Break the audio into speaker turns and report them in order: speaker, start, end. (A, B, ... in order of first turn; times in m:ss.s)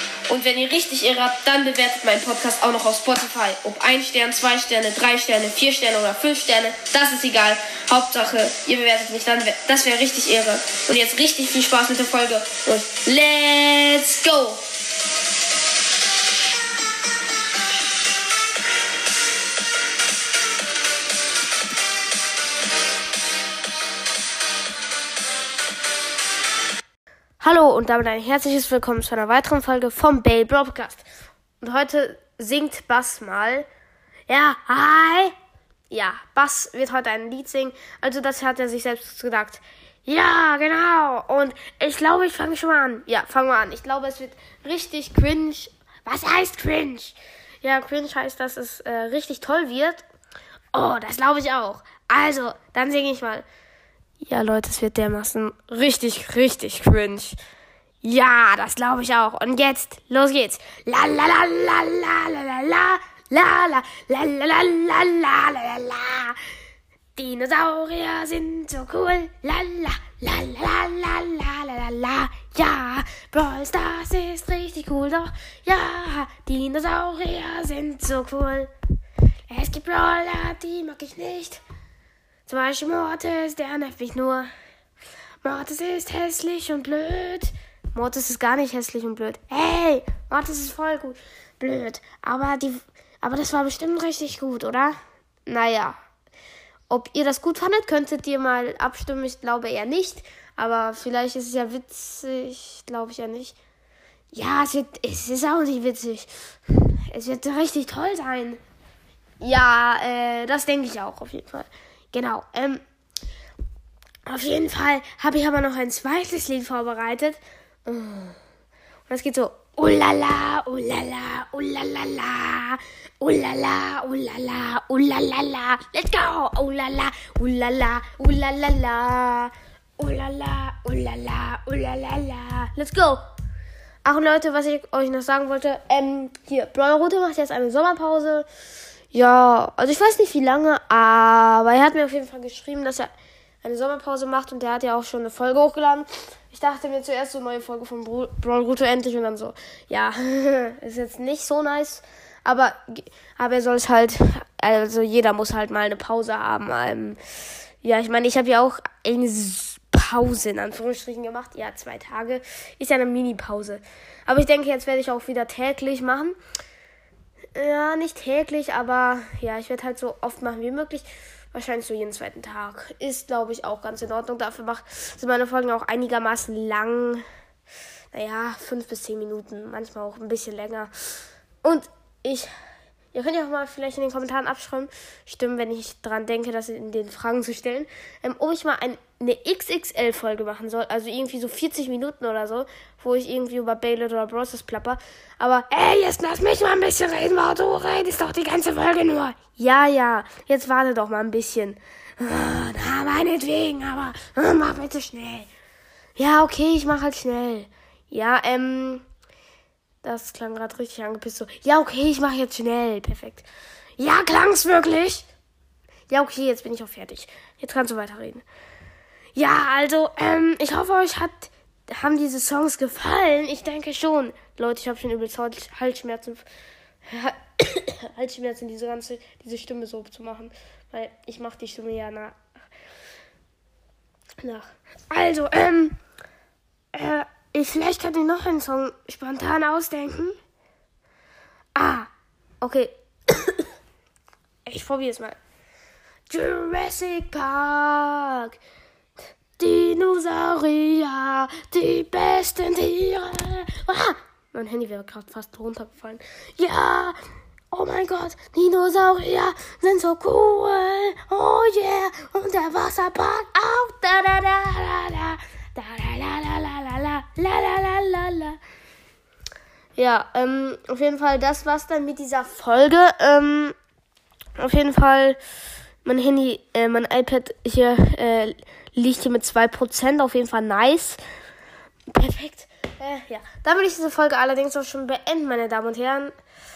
0:00.3-0:14.6 A
0:27.4-0:31.0 A
0:31.6-0:33.7 A
0:34.3-0:35.3 A
0:35.9-0:50.0 A
0:50.7-0:53.4 A
0:54.2-0:57.4 A
0:58.0-1:06.4 A
1:07.2-1:18.7 A
1:19.5-1:21.6 A
1:22.5-1:24.5 A
1:25.4-1:36.0 A
1:36.9-1:43.6 A
1:44.3-1:48.6 A
1:49.4-1:52.8 A
1:54.2-1:58.4 A
1:59.1-2:13.2 A
2:14.0-2:18.5 A
2:19.1-2:37.2 A
2:37.8-2:46.4 A
2:47.5-2:57.2 A
2:58.1-3:00.9 A
3:01.6-3:02.5 A
3:03.1-3:25.5 A
3:26.2-3:29.0 A
3:30.0-3:33.5 A
3:34.0-3:35.2 A
3:36.1-3:38.4 A
3:39.3-3:46.4 A
3:47.1-3:52.4 A
3:54.4-3:56.0 A
3:56.9-4:00.4 A
4:01.8-4:02.1 A
4:02.6-4:03.7 A
4:04.7-4:05.4 A
4:06.3-4:08.6 A
4:09.6-4:17.2 A
4:17.7-4:28.6 A
4:30.0-4:33.8 A
4:34.6-4:35.4 A
4:36.0-4:41.2 A
4:42.1-4:46.3 A